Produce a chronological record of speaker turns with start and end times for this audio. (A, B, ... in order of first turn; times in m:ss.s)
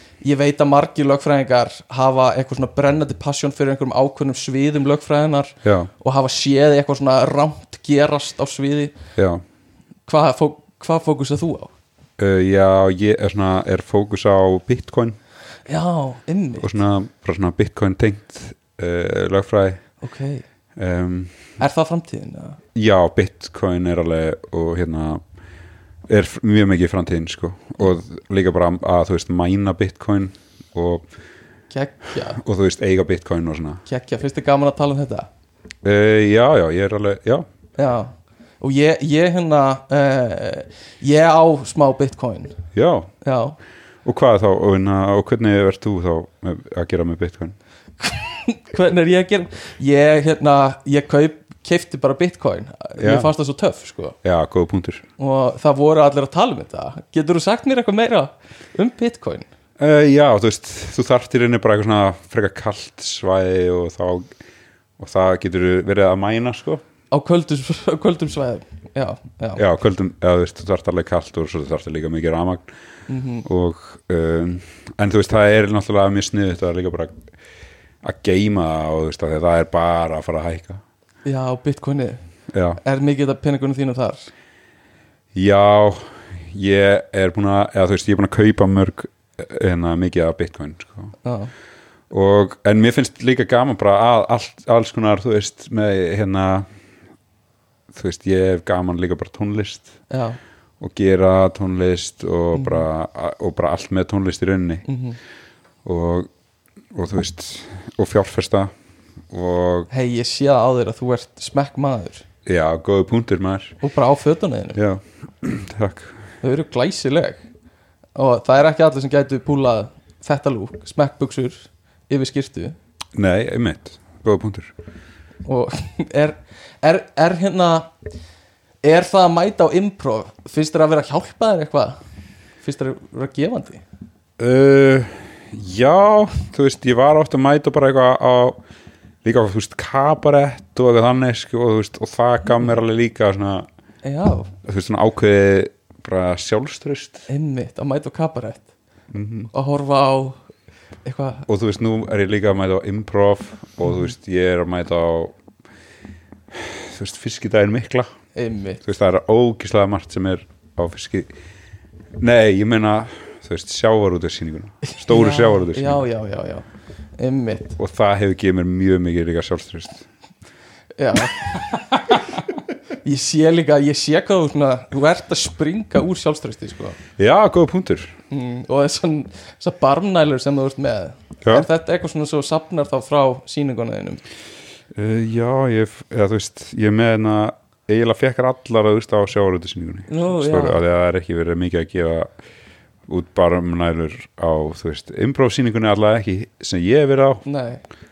0:00.2-0:09.0 A
0:05.6-0:05.9 B
0:09.2-0:09.4 B
0:10.1-0:11.7 A
0:12.2-0:15.2 B
0:15.7-0:16.7 A
0:16.6-0:19.8 B
0:20.0-0:20.4 A
0:20.8-0:21.5 B
0:21.6-0:22.6 A
0:22.8-0:25.2 B
0:26.1-0:31.0 B
0:31.7-0:32.4 A
0:32.4-0:33.8 B
0:33.9-0:35.3 A
0:35.8-0:37.5 B
0:37.8-0:42.6 A
0:42.7-0:43.1 B
0:43.2-0:43.6 A
0:44.0-0:47.6 B
0:48.0-0:54.2 A
0:53.0-0:53.3 B
0:54.2-0:55.0 B
0:55.2-0:59.5 A
0:59.8-1:04.3 B
1:05.0-1:06.8 B
1:07.1-1:09.6 A
1:09.6-1:12.7 B
1:13.1-1:13.4 A
1:13.5-1:17.2 B
1:18.0-1:20.8 B
1:21.2-1:22.2 A
1:22.5-1:22.8 B
1:22.8-1:24.3 A
1:25.4-1:31.1 B
1:31.2-1:31.5 A
1:32.1-1:36.7 B
1:37.9-1:39.9 B
1:40.1-1:40.4 A
1:40.8-1:44.9 B
1:42.5-1:42.8 A
1:44.9-1:45.2 A
1:45.8-1:46.3 B
1:46.9-1:48.7 B
1:49.3-1:49.9 B
1:49.9-1:52.2 A
1:52.5-1:53.8 B
1:53.8-1:54.8 A
1:54.8-1:56.2 B
1:56.4-1:57.4 A
1:58.2-2:02.8 A
2:03.2-2:04.7 B
2:05.4-2:07.9 A
2:08.8-2:12.0 A
2:12.6-2:13.8 A
2:14.4-2:18.6 B
2:19.2-2:23.7 B
2:24.0-2:24.5 A
2:24.6-2:27.3 B
2:27.3-2:28.7 A
2:29.1-2:29.5 B
2:29.5-2:30.4 A
2:31.0-2:31.4 A
2:31.5-2:35.4 B
2:36.5-2:38.1 B
2:38.4-2:38.8 A
2:38.8-2:41.3 B
2:42.2-2:46.0 B
2:45.1-2:46.7 A
2:47.2-2:47.8 A
2:47.8-2:50.0 B
2:51.0-2:52.2 A
2:53.0-2:57.0 A
2:57.2-2:58.2 B
2:58.3-3:04.2 A
3:04.9-3:12.3 B
3:10.1-3:10.8 A
3:13.1-3:17.4 B
3:17.4-3:17.8 A